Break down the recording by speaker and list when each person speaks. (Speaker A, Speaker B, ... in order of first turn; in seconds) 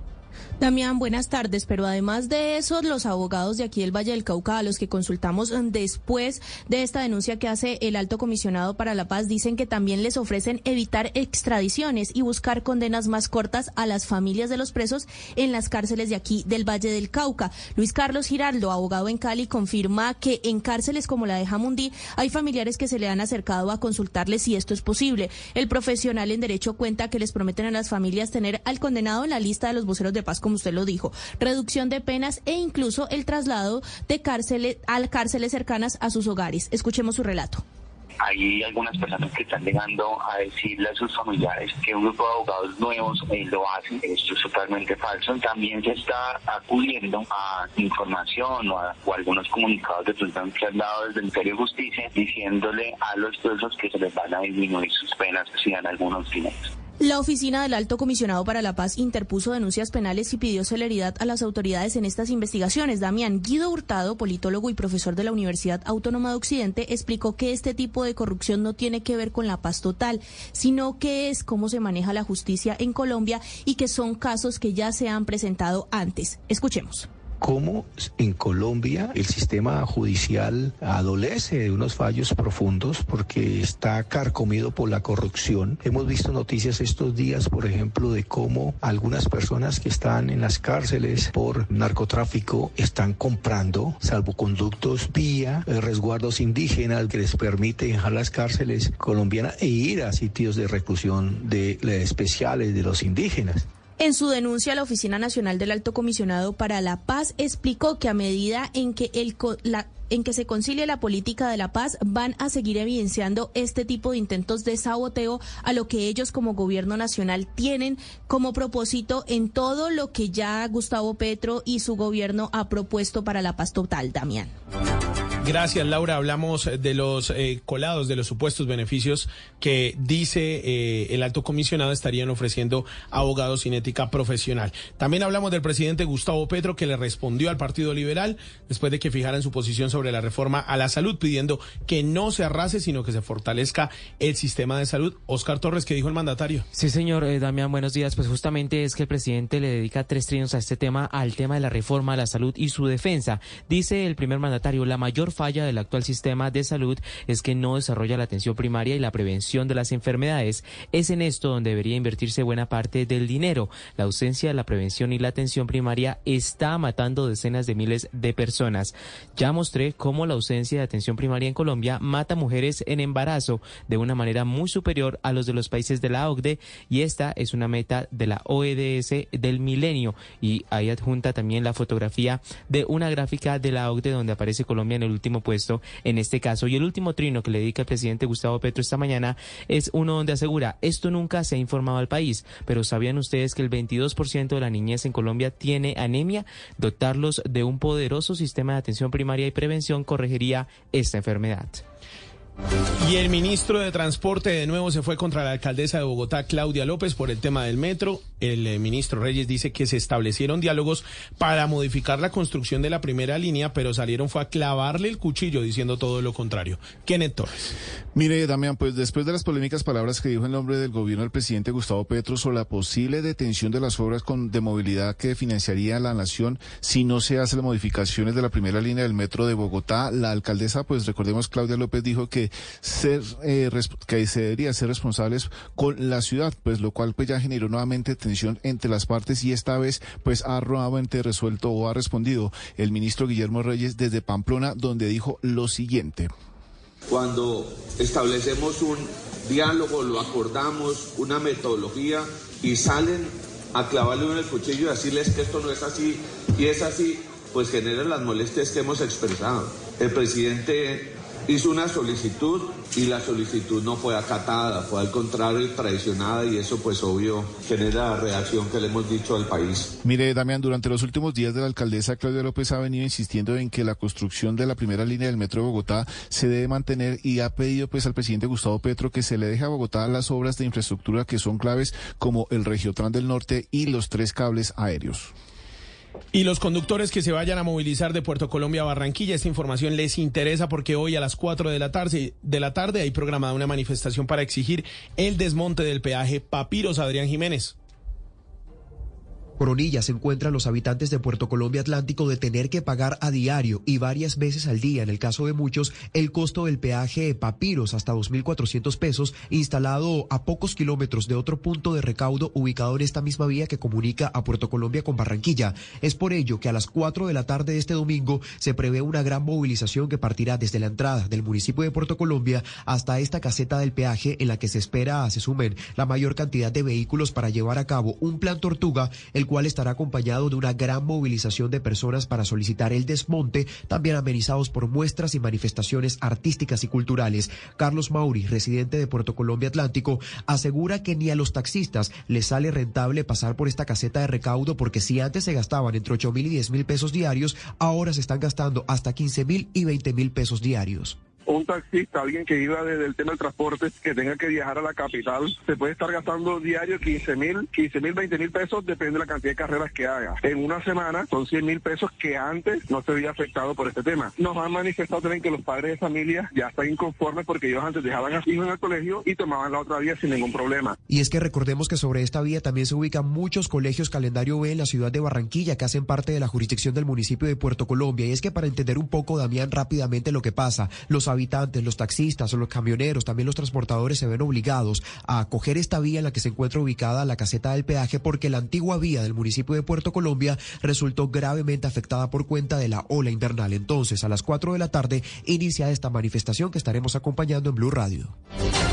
Speaker A: 0.6-37.6, 57.0-77.1, 104.0-124.5
Speaker B: 38.2-56.7
Speaker C: 77.4-103.7
Speaker D: 125.4-146.7, 203.0-217.7, 286.3-297.7
Speaker E: 146.7-201.8
Speaker F: 218.1-246.3, 270.0-285.3
Speaker G: 247.1-269.9
Speaker H: 299.6-351.2, 371.1-398.3
Speaker I: 351.5-370.9